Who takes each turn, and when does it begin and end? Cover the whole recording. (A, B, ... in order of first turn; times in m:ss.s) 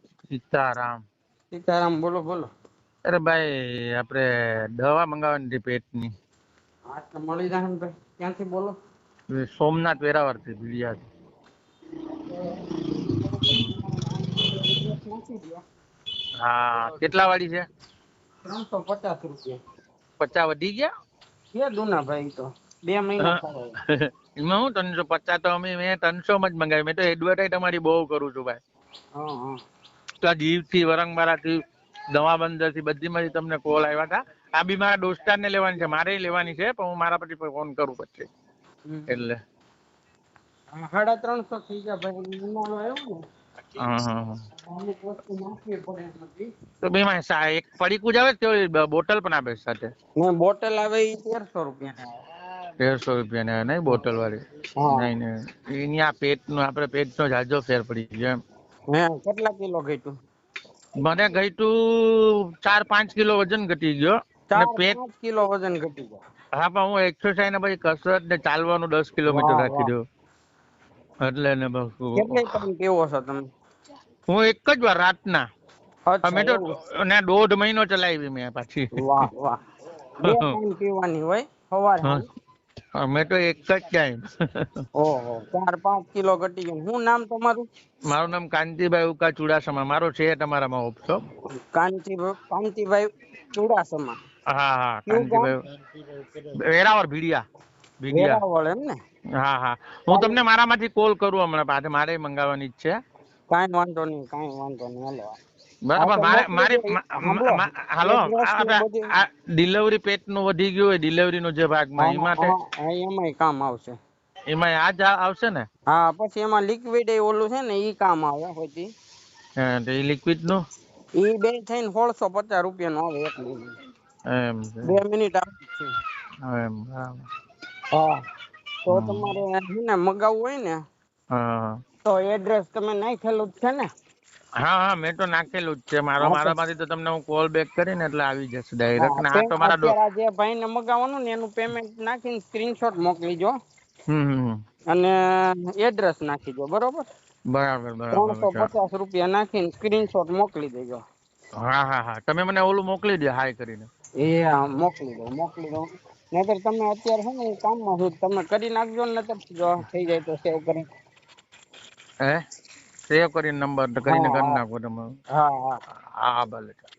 0:00.3-0:01.0 A
0:01.5-0:02.5 B
0:03.1-0:04.2 A
0:04.8-0:06.1 A
0:06.9-0:08.8 B
0:09.3-0:11.0 A
0:13.1-0:15.6 B
0:16.4-0:17.6 A
0:18.4-0:19.6 B
0:20.2-0:20.9 A
0:21.5-0:23.8 B
0:23.9-0:28.6 A
0:29.2-0:29.6 B
0:30.2-0:31.6 A
0:32.1-0:38.3 A
0:38.9-0:39.1 B
0:39.1-0:39.4 A
0:40.7-0:43.2 B
0:43.8-0:44.4 A
0:44.6-0:46.5 B
0:46.8-0:49.9 A
0:50.2-0:52.1 B
0:52.8-0:58.4 A
0:54.8-0:55.1 B
0:58.9-1:00.2 B
1:01.0-1:05.0 A
1:04.5-1:06.2 B
1:06.6-1:10.0 A
1:09.3-1:09.9 B
1:11.2-1:12.6 A
1:12.2-1:13.4 B
1:14.3-1:15.4 A
1:16.1-1:16.7 B
1:16.2-1:19.3 A
1:19.0-1:19.6 B
1:20.2-1:22.3 B
1:20.2-1:20.6 A
1:23.0-1:24.8 A
1:25.0-1:27.6 B
1:28.1-1:31.2 A
1:31.7-1:34.2 B
1:34.5-1:35.6 A
1:35.1-1:35.5 B
1:36.4-1:37.4 A
1:38.0-1:38.4 A
1:38.1-1:39.0 B
1:39.4-1:42.9 A
1:40.1-1:40.4 B
1:43.5-1:45.4 B
1:45.9-1:52.5 A
1:46.0-1:49.1 B
1:52.0-1:54.0 B
1:54.5-1:55.7 A
1:55.9-1:58.9 B
1:59.6-2:00.6 A
2:01.2-2:03.7 B
2:04.3-2:05.0 A
2:04.8-2:05.9 B
2:06.5-2:07.3 A
2:07.9-2:08.2 B
2:08.8-2:10.8 B
2:08.9-2:09.4 A
2:11.3-2:11.8 A
2:12.0-2:13.9 B
2:14.6-2:20.0 A
2:16.2-2:16.6 B
2:19.0-2:23.5 B
2:24.1-2:24.6 A
2:24.9-2:27.1 B
2:27.5-2:28.7 A
2:28.1-2:31.0 B
2:31.6-2:33.9 A
2:34.2-2:40.9 B
2:43.1-2:45.1 A
2:44.0-2:44.6 B
2:45.3-2:45.8 B
2:46.2-2:46.9 A